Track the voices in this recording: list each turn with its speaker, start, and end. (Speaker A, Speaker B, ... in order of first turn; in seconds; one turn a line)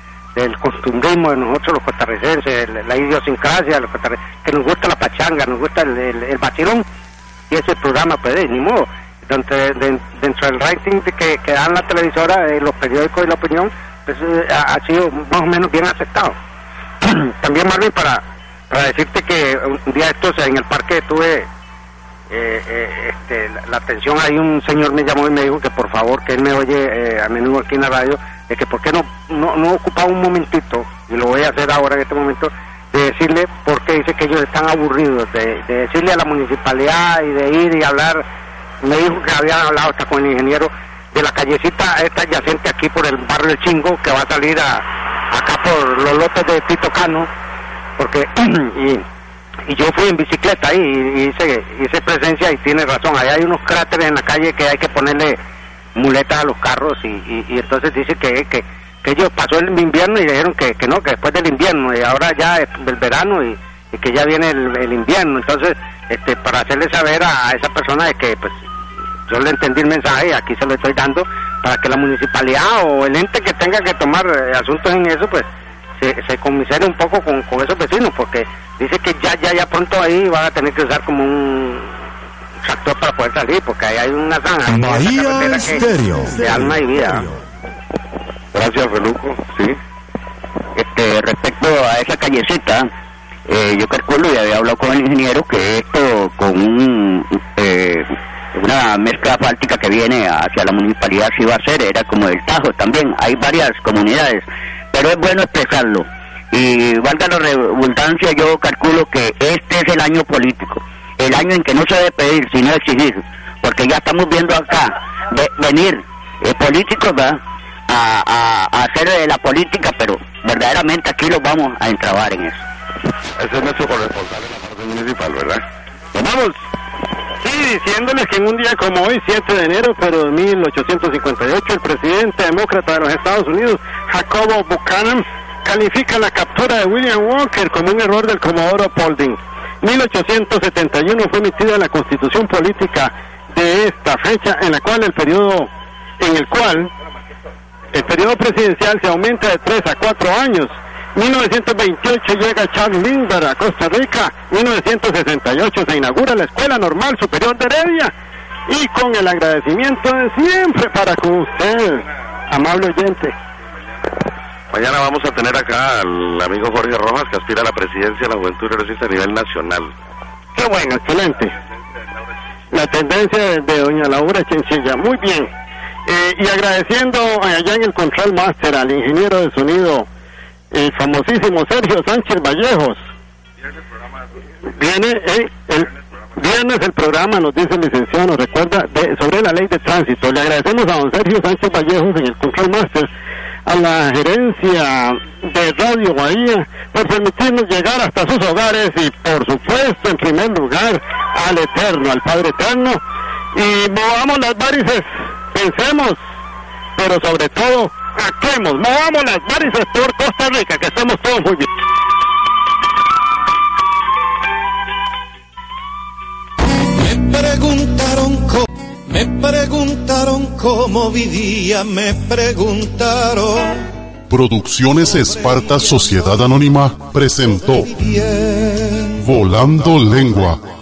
Speaker A: 0.3-6.8
Speaker A: 7.5-16.4
Speaker A: 17.0-21.5
Speaker A: 22.3-38.2
Speaker A: 38.8-47.3
Speaker A: 48.0-49.0
Speaker A: 49.7-55.4
Speaker A: 56.0-68.6
Speaker A: 69.3-75.5
Speaker A: 76.0-81.9
Speaker A: 82.6-87.3
Speaker B: 88.5-89.8
Speaker C: 90.8-92.9
Speaker C: 93.5-122.6
Speaker B: 123.4-126.7
Speaker D: 127.4-146.9
Speaker D: 147.9-158.1
Speaker D: 158.7-163.3
Speaker B: 164.7-169.9
Speaker D: 170.6-171.5
Speaker D: 172.7-175.5
Speaker D: 176.1-180.1
Speaker D: 180.7-183.1
Speaker D: 184.8-193.1
Speaker D: 193.7-203.0
Speaker D: 203.5-206.2
Speaker D: 207.0-211.7
Speaker E: 216.9-223.9
Speaker F: 224.3-227.9
Speaker E: 225.0-226.6
Speaker E: 227.4-229.4
Speaker F: 229.2-230.6